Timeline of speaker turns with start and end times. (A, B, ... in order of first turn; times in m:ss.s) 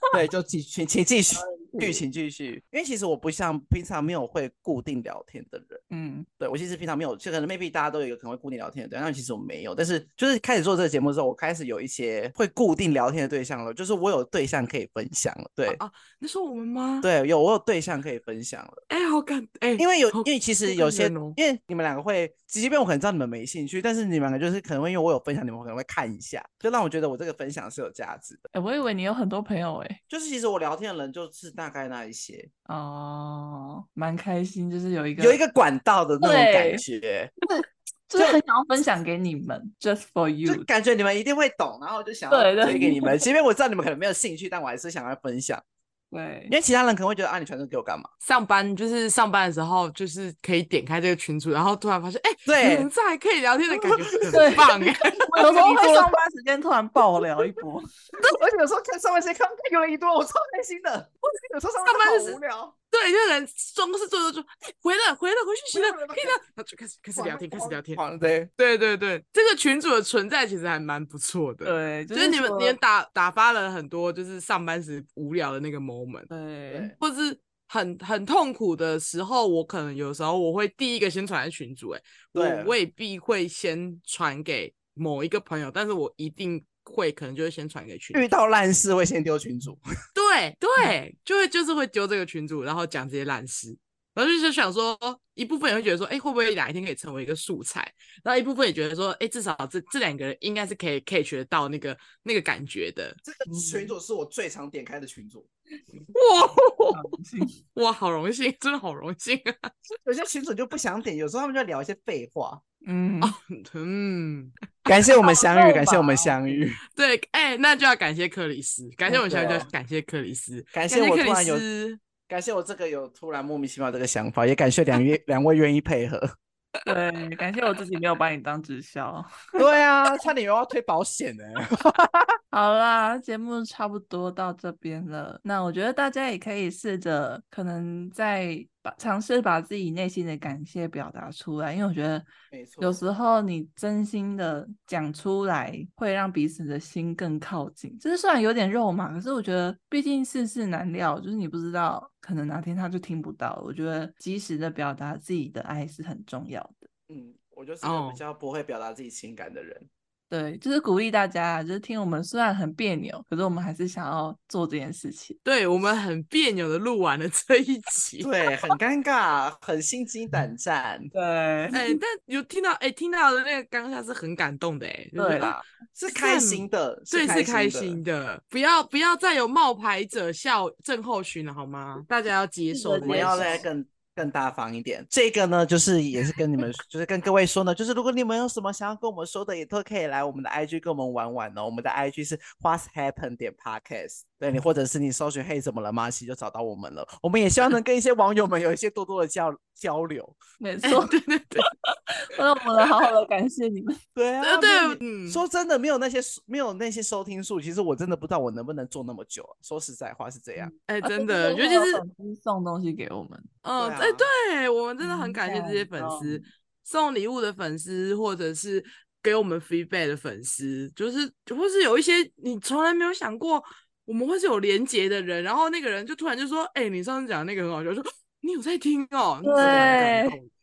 0:00.1-0:05.8 A
0:01.3-0:02.0 B
0:05.9-0:06.3 B
0:06.4-0:15.8 A
0:15.7-0:17.1 C
0:17.0-0:18.8 A
0:18.9-0:21.4 C
0:19.8-0:28.4 A
0:28.5-0:30.0 B
0:30.1-0:32.5 A
0:32.7-0:35.4 B
0:35.2-0:37.5 A
0:36.2-0:36.8 B
0:38.1-0:40.7 B
0:38.2-0:38.4 A
0:40.4-0:45.6 A
0:42.3-0:43.2 B
0:46.1-0:46.5 B
0:46.5-0:48.1 A
0:48.2-0:55.7 C
0:52.5-0:52.9 A
0:53.8-0:54.7 A
0:54.3-0:57.8 B
0:55.3-0:56.2 A
0:58.2-1:02.7 A
1:01.8-1:02.4 C
1:02.9-1:08.0 C
1:05.7-1:06.4 A
1:07.1-1:08.5 A
1:08.6-1:16.3 C
1:11.6-1:12.8 B
1:16.3-1:16.9 B
1:16.7-1:17.0 A
1:17.0-1:28.2 C
1:22.3-1:22.8 A
1:28.1-1:29.8 A
1:30.1-1:43.2 C
1:43.2-1:45.5 A
1:43.5-1:43.9 B
1:46.1-1:47.0 C
1:46.9-1:47.6 B
1:47.7-1:49.7 C
1:50.0-1:52.6 A
1:52.8-1:53.4 B
1:53.2-1:54.5 C
1:54.8-1:56.8 A
1:55.0-1:56.6 B
1:57.0-2:02.0 C
1:59.1-1:59.6 B
1:59.2-1:59.7 A
2:00.7-2:01.6 A
2:02.3-2:06.3 A
2:06.8-2:09.3 B
2:09.6-2:12.4 A
2:12.5-2:22.2 B
2:22.5-2:23.0 A
2:22.8-2:36.9 B
2:37.1-2:39.9 A
2:37.8-2:38.2 C
2:40.3-2:45.4 B
2:45.4-2:48.3 C
2:48.2-2:51.1 A
2:51.1-2:51.9 B
2:51.7-3:03.6 C
2:55.2-2:55.6 B
2:56.0-2:58.0 A
3:02.7-3:03.7 B
3:03.0-3:20.4 A
3:20.6-3:24.0 B
3:20.8-3:21.7 C
3:24.1-3:30.7 A
3:24.4-3:25.4 C
3:30.6-3:33.5 B
3:30.9-3:32.0 C
3:33.6-3:50.5 C
3:33.8-3:34.3 A
3:35.0-3:36.5 B
3:49.4-3:50.4 B
3:49.6-3:50.1 A